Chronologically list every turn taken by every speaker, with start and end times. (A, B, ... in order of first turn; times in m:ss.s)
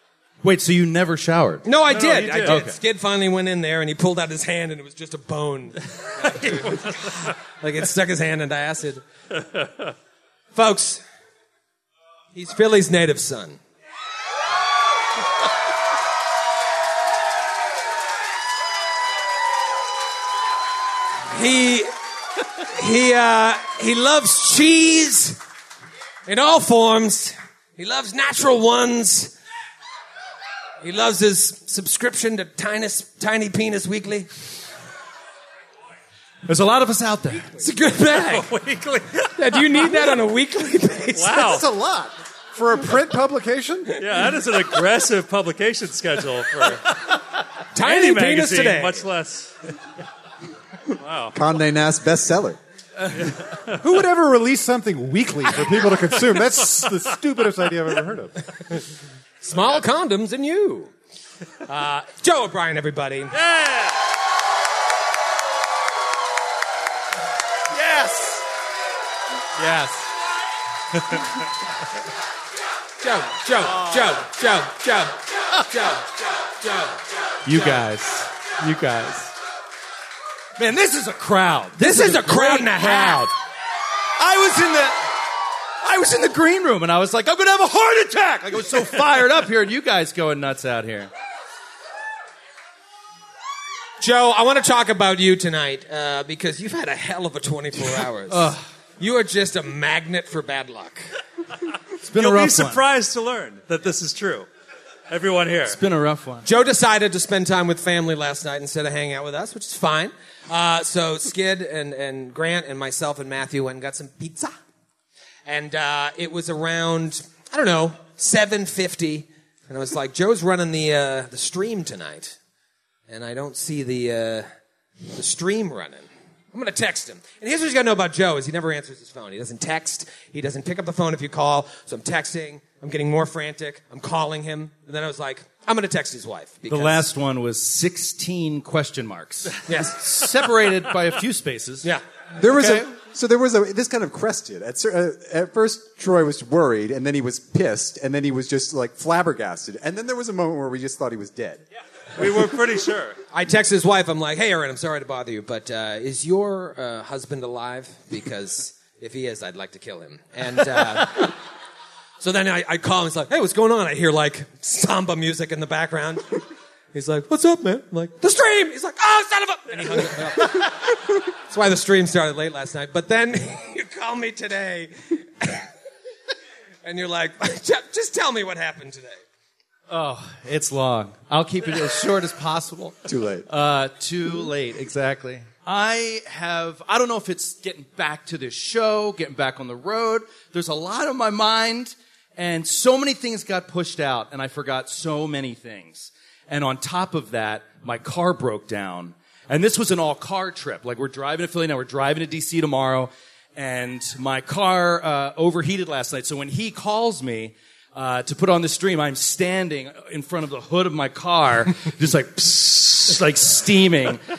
0:00.4-0:01.8 A
0:01.6-0:09.0 B
0:01.9-0:02.6 C
0:02.3-0:02.8 A
0:06.3-0:07.3 C
0:10.5-0:11.0 B
0:12.3-0:13.6 B
0:21.3-0:21.9 B
0:22.6-0:25.4 B
0:26.2-0:29.3 B
0:30.8-0:34.3 B
0:36.4-0:37.6 A
0:37.6-0:38.5 B
0:38.1-0:40.0 C
0:39.4-0:41.6 B
0:41.1-0:41.6 C
0:41.4-0:44.0 D
0:43.9-0:47.2 C
0:47.7-0:49.0 B
0:47.8-0:49.7 C
0:51.0-0:51.3 C
0:51.3-0:52.6 E
0:53.2-0:53.6 C
0:53.8-0:58.4 D
0:59.4-1:00.9 B
1:01.6-1:03.3 B
1:03.3-1:04.0 C
1:07.8-1:08.3 A
1:07.8-1:08.3 C
1:09.6-1:10.0 A
1:13.0-1:17.0 B
1:13.6-1:14.2 A
1:17.4-1:19.3 A
1:20.6-1:23.3 A
1:21.8-1:23.3 B
1:24.2-1:25.1 A
1:25.8-1:31.1 A
1:34.0-1:41.0 B
1:38.3-1:38.6 A
1:42.0-1:42.8 A
1:42.1-1:44.5 C
1:45.1-1:45.8 C
1:45.6-1:46.5 A
1:46.4-1:54.5 B
1:55.4-2:02.4 B
2:03.1-2:04.5 B
2:05.1-2:17.1 B
2:16.7-2:21.9 A
2:19.7-2:20.0 B
2:22.4-2:31.6 E
2:22.5-2:22.8 A
2:32.2-2:33.2 C
2:33.3-2:41.4 B
2:42.2-2:50.9 B
2:51.5-2:55.7 B
2:56.8-2:59.2 B
2:59.9-3:34.2 A
3:03.1-3:03.4 E